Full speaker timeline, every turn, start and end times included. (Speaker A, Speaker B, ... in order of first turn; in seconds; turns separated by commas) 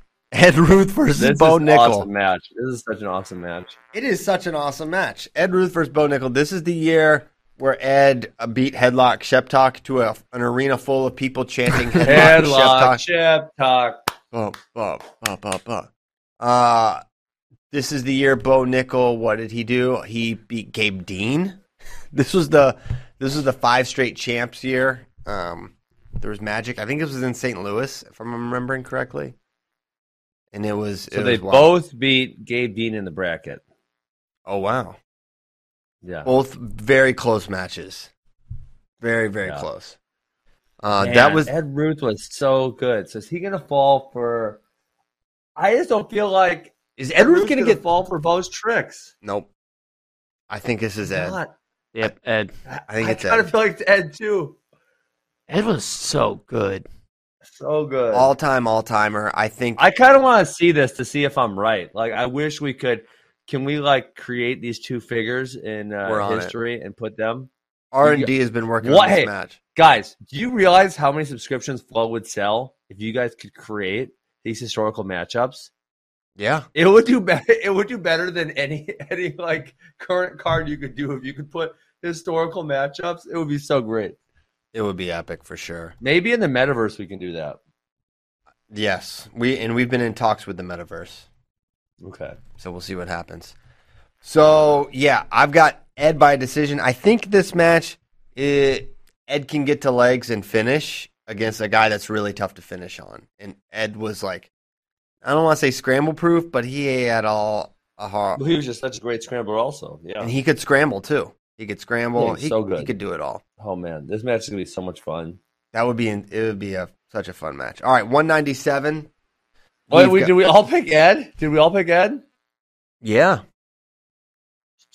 Speaker A: 0.3-2.1, Speaker B: 1.2-3.8, Speaker A: 3.9-13.0, Speaker B: 12.0-14.0, Speaker A: 14.3-15.9, Speaker A: 16.4-17.0, Speaker A: 17.7-21.6, Speaker A: 22.1-29.4, Speaker A: 30.5-31.7, Speaker B: 31.1-33.6, Speaker A: 34.5-35.0, Speaker B: 36.0-36.3, Speaker A: 36.2-38.1, Speaker A: 39.0-40.0, Speaker A: 40.8-41.5, Speaker B: 40.9-44.6, Speaker B: 45.6-49.1, Speaker A: 47.0-47.8, Speaker A: 49.2-49.5, Speaker A: 50.5-51.4, Speaker B: 51.1-51.5, Speaker C: 51.9-52.5, Speaker B: 52.7-54.6, Speaker A: 52.9-53.5, Speaker C: 55.5-56.9, Speaker B: 57.5-58.3, Speaker A: 58.1-59.8, Speaker B: 59.8-67.5, Speaker A: 66.0-66.5, Speaker A: 67.9-69.6, Speaker B: 68.0-75.7, Speaker A: 76.4-76.7, Speaker B: 76.8-84.2, Speaker A: 84.7-86.0, Speaker B: 86.0-87.6, Speaker A: 88.7-91.3, Speaker B: 92.0-92.4, Speaker A: 92.6-93.5, Speaker A: 94.2-104.5, Speaker A: 105.2-108.4, Speaker B: 108.4-110.3, Speaker A: 110.2-113.4, Speaker B: 112.2-112.9, Speaker B: 113.6-115.4, Speaker A: 115.7-119.1, Speaker A: 119.9-120.4, Speaker B: 119.9-122.2, Speaker A: 123.0-123.4